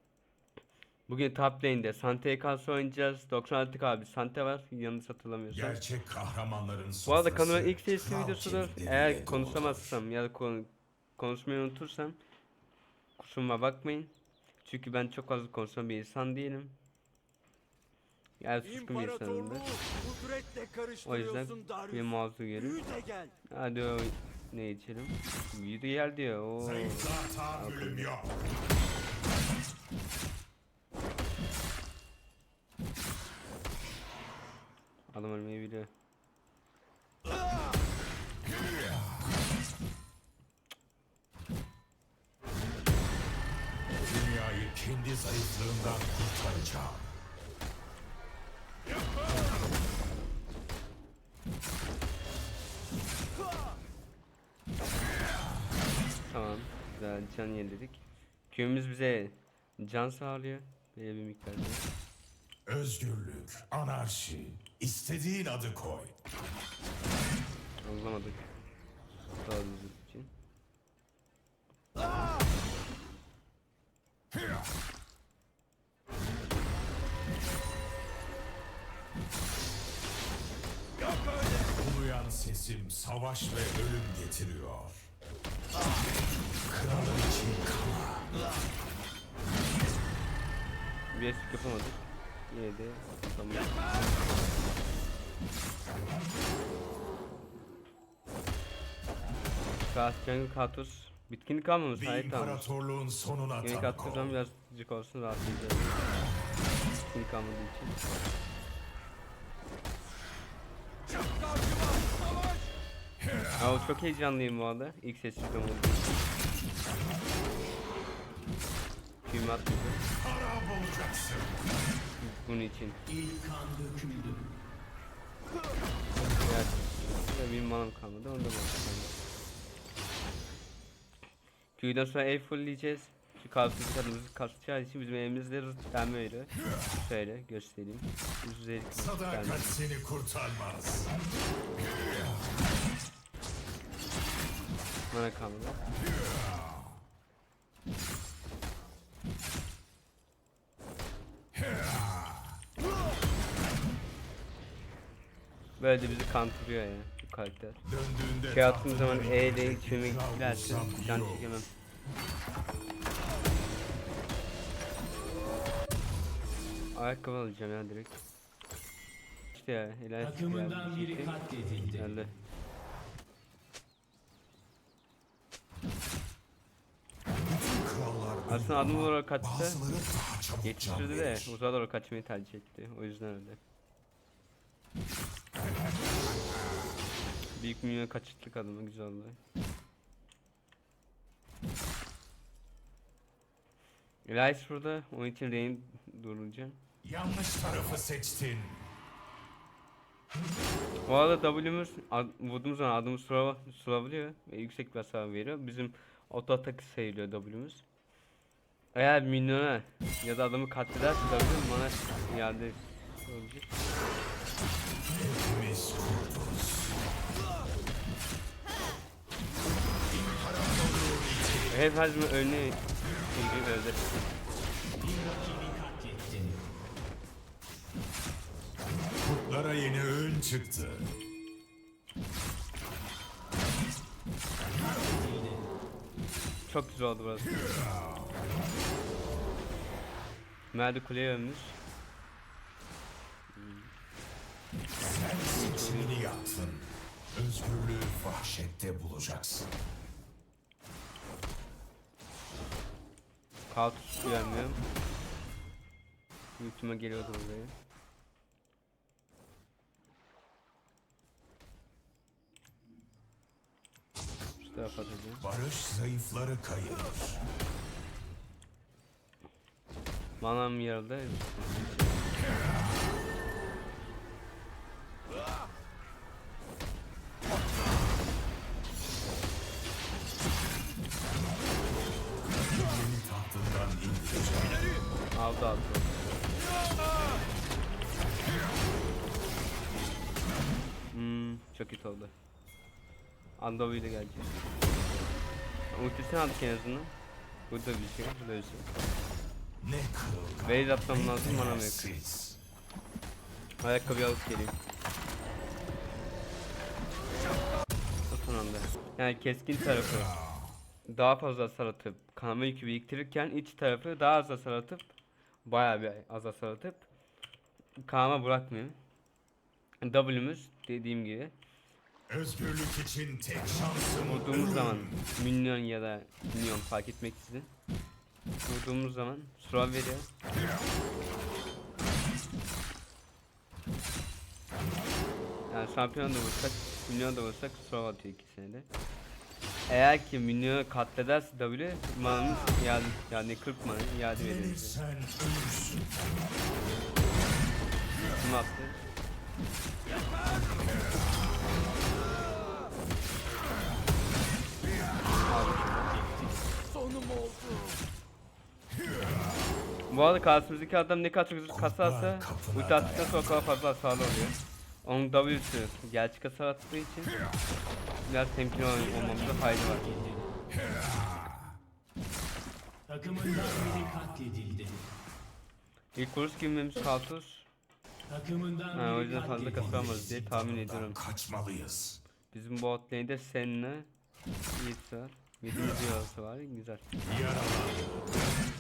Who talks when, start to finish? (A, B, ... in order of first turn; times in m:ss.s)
0:01.1-0:05.8 A
0:05.5-0:10.0 B
0:07.1-0:12.2 A
0:13.2-0:16.8 A
0:18.4-0:19.7 A
0:21.0-0:22.8 A
0:23.5-0:28.1 A
0:26.6-0:28.4 B
0:35.1-0:35.9 A
0:38.6-0:39.4 B
0:44.1-0:47.1 B
0:56.2-1:01.8 A
1:02.7-1:06.2 B
1:07.8-1:08.5 A
1:09.3-1:10.3 A
1:21.7-1:25.0 B
1:26.7-1:28.4 B
1:31.1-1:34.3 A
1:39.9-1:42.7 A
1:41.9-1:44.4 B
1:43.6-1:45.9 A
1:47.1-1:48.0 A
1:53.6-1:56.1 A
1:59.2-2:00.0 A
2:00.2-2:01.7 B
2:02.2-2:03.0 A
2:03.1-2:04.4 C
2:06.4-2:09.1 A
2:11.8-2:19.7 A
2:19.0-2:21.1 B
2:25.1-2:25.8 A
2:26.4-2:26.8 B
2:31.7-2:32.5 B
2:35.8-2:37.8 A
2:37.8-2:41.6 B
2:38.5-2:41.7 A
2:46.9-2:48.2 A
2:49.5-2:52.3 A
2:50.4-2:52.0 C
2:57.5-3:01.5 B
2:58.5-2:59.8 A
3:00.6-3:03.6 A
3:07.6-3:09.4 A
3:14.2-3:16.8 A
3:17.0-3:18.9 B
3:21.1-3:27.8 A
3:29.0-3:33.7 A
3:35.0-3:37.0 B
3:40.1-3:41.8 B
3:41.7-3:44.1 A
3:45.0-3:46.6 C
3:49.2-3:51.1 B
3:55.0-3:55.6 C
3:56.7-3:57.9 A
3:58.0-3:58.4 B
4:00.7-4:01.8 A
4:03.5-4:03.9 A
4:05.0-4:09.7 B
4:05.5-4:06.4 A
4:13.7-4:14.8 A
4:16.6-4:17.7 A
4:24.6-4:25.4 A
4:25.4-4:27.4 B
4:30.4-4:32.2 A
4:42.7-4:44.8 B
4:45.3-4:46.2 A
4:51.1-4:52.3 A
4:53.6-4:54.5 A
4:55.9-4:57.1 A
4:57.7-4:58.9 A
4:59.8-5:02.6 B
5:00.6-5:02.1 A
5:03.8-5:04.8 A
5:08.3-5:10.4 A
5:10.4-5:10.7 B
5:11.1-5:15.1 A
5:15.6-5:17.1 A
5:18.0-5:19.0 A
5:20.0-5:21.5 A
5:22.3-5:25.3 B
5:24.2-5:27.7 A
5:28.7-5:30.3 A
5:35.7-5:38.9 A
5:39.9-5:45.0 A
5:44.3-5:46.2 B
5:48.4-5:49.0 A
5:55.5-5:56.3 A
6:00.1-6:07.4 A
6:01.7-6:03.7 B
6:08.3-6:10.1 A
6:09.1-6:10.4 C
6:11.1-6:11.6 B
6:13.1-6:15.0 C
6:13.7-6:14.2 B
6:16.2-6:17.7 A
6:18.3-6:19.9 C
6:18.9-6:21.2 A
6:19.3-6:22.2 B
6:22.5-6:24.1 A
6:24.8-6:27.0 A
6:27.2-6:28.3 B